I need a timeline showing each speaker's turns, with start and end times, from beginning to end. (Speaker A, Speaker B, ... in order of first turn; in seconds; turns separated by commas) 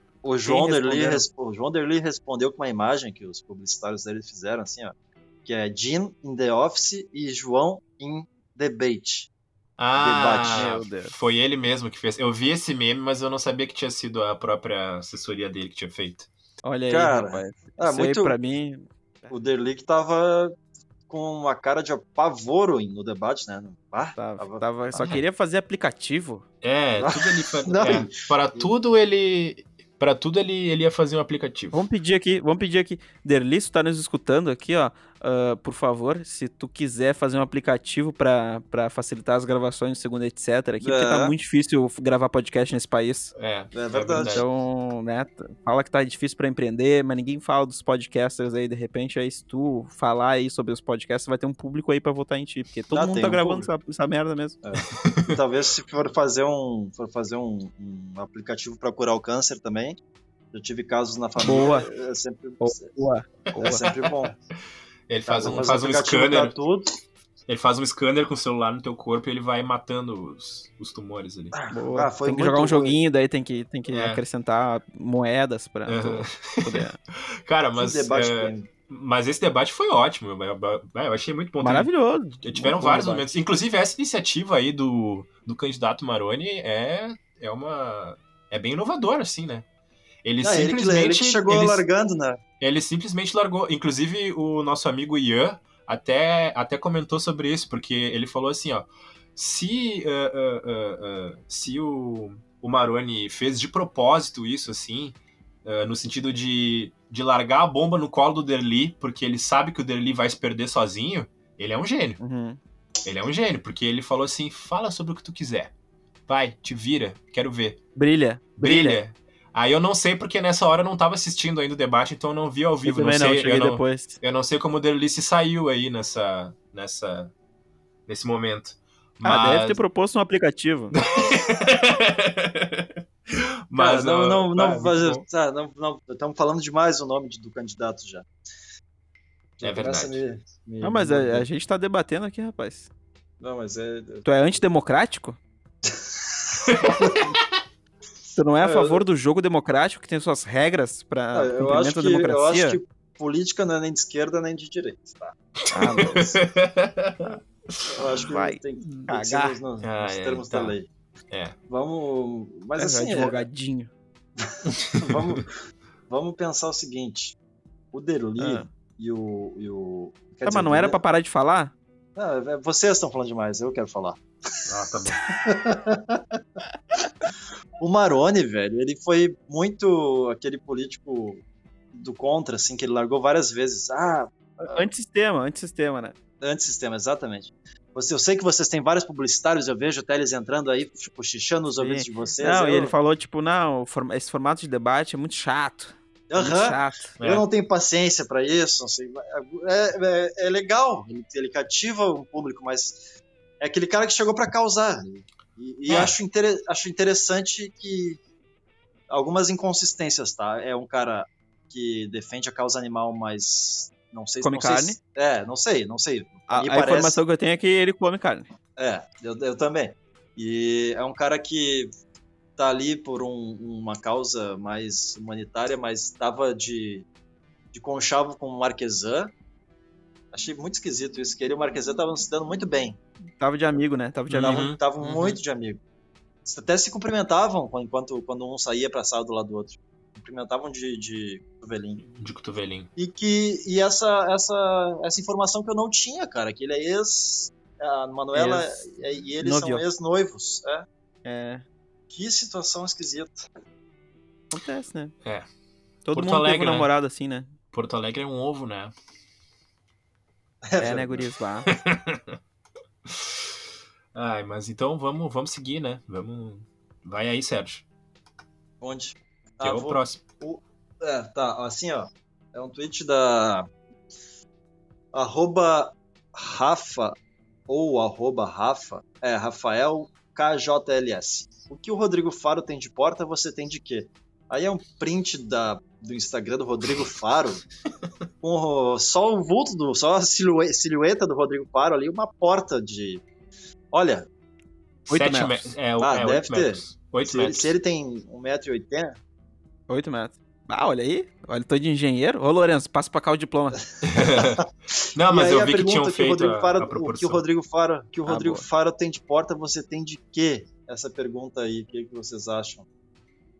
Speaker A: 0.2-4.9, Speaker B: 0.4-1.2, Speaker A: 5.4-9.3, Speaker C: 9.8-16.3, Speaker A: 9.9-10.8, Speaker B: 10.4-11.1, Speaker B: 16.6-19.3, Speaker A: 16.9-18.3, Speaker A: 19.3-20.6, Speaker A: 21.1-24.6, Speaker B: 24.1-26.4, Speaker C: 24.9-25.2, Speaker C: 26.6-31.8, Speaker A: 27.0-28.6, Speaker B: 31.7-43.3, Speaker A: 40.8-41.3, Speaker C: 43.3-44.5, Speaker A: 43.7-44.4, Speaker B: 44.3-54.5, Speaker A: 52.9-53.7, Speaker A: 54.6-60.0, Speaker C: 54.8-55.4, Speaker A: 60.5-62.9, Speaker B: 61.4-61.9, Speaker B: 62.6-63.8, Speaker A: 63.6-64.3, Speaker C: 65.1-66.5, Speaker B: 65.3-65.7, Speaker A: 65.4-67.0, Speaker C: 67.5-71.5, Speaker A: 71.5-73.0, Speaker B: 71.7-77.0, Speaker C: 73.9-74.2, Speaker C: 75.9-76.8, Speaker C: 77.4-81.9, Speaker A: 77.8-78.7, Speaker B: 81.6-83.3, Speaker C: 82.4-89.7, Speaker C: 90.2-91.8, Speaker A: 90.4-92.4, Speaker C: 92.6-112.2, Speaker B: 112.2-112.6, Speaker C: 113.0-115.7, Speaker C: 116.3-117.8, Speaker B: 118.0-119.0, Speaker C: 118.6-127.3, Speaker B: 122.8-124.2, Speaker C: 128.1-129.8, Speaker B: 129.2-130.9, Speaker C: 130.9-135.2, Speaker A: 133.7-138.2, Speaker A: 139.6-141.5, Speaker C: 139.6-140.2, Speaker B: 140.8-142.9, Speaker A: 143.4-144.2, Speaker B: 144.2-145.4, Speaker A: 145.8-147.3, Speaker C: 146.7-147.3, Speaker B: 148.3-152.8, Speaker A: 148.6-149.0, Speaker A: 151.3-155.3, Speaker B: 155.7-156.2, Speaker C: 155.8-158.0, Speaker A: 155.9-156.4, Speaker A: 157.9-160.9, Speaker B: 158.1-159.6, Speaker C: 159.8-160.7, Speaker C: 161.3-161.5, Speaker A: 161.7-163.4, Speaker B: 162.8-163.9, Speaker A: 164.4-165.5, Speaker A: 166.1-167.3, Speaker A: 167.9-171.0, Speaker B: 168.4-168.7, Speaker B: 170.4-171.7, Speaker A: 172.2-174.2, Speaker C: 174.7-175.2, Speaker A: 175.2-176.4, Speaker A: 177.8-181.4, Speaker A: 181.9-184.8, Speaker B: 184.7-186.1, Speaker A: 186.4-192.9, Speaker B: 191.8-197.1, Speaker A: 196.3-203.0, Speaker C: 197.2-197.4, Speaker A: 203.6-208.2, Speaker A: 209.1-217.2, Speaker B: 214.4-215.0, Speaker B: 216.5-218.5, Speaker A: 218.8-221.9, Speaker A: 222.6-227.1, Speaker A: 227.7-229.3, Speaker A: 230.3-233.0, Speaker B: 233.4-235.4, Speaker C: 234.3-234.8, Speaker A: 234.4-235.8, Speaker A: 236.4-242.0, Speaker C: 242.0-242.9, Speaker A: 243.0-250.8, Speaker B: 248.3-248.8, Speaker B: 249.4-249.8, Speaker B: 251.2-251.6, Speaker A: 252.1-253.5, Speaker B: 254.5-255.1, Speaker B: 256.1-257.5, Speaker C: 256.1-256.9, Speaker C: 257.7-258.9, Speaker A: 260.7-261.3, Speaker B: 260.8-261.7, Speaker C: 261.7-262.4, Speaker C: 263.1-263.5, Speaker C: 264.1-267.8, Speaker A: 268.8-273.7, Speaker C: 269.6-270.2, Speaker A: 275.1-277.1, Speaker A: 277.7-287.6, Speaker A: 288.4-293.2, Speaker A: 293.9-294.2, Speaker B: 295.1-295.7, Speaker C: 295.1-297.7, Speaker A: 296.0-299.1, Speaker B: 299.9-303.8, Speaker C: 304.0-304.6, Speaker A: 304.1-304.6, Speaker C: 305.1-307.4, Speaker A: 305.3-312.8, Speaker B: 308.3-308.6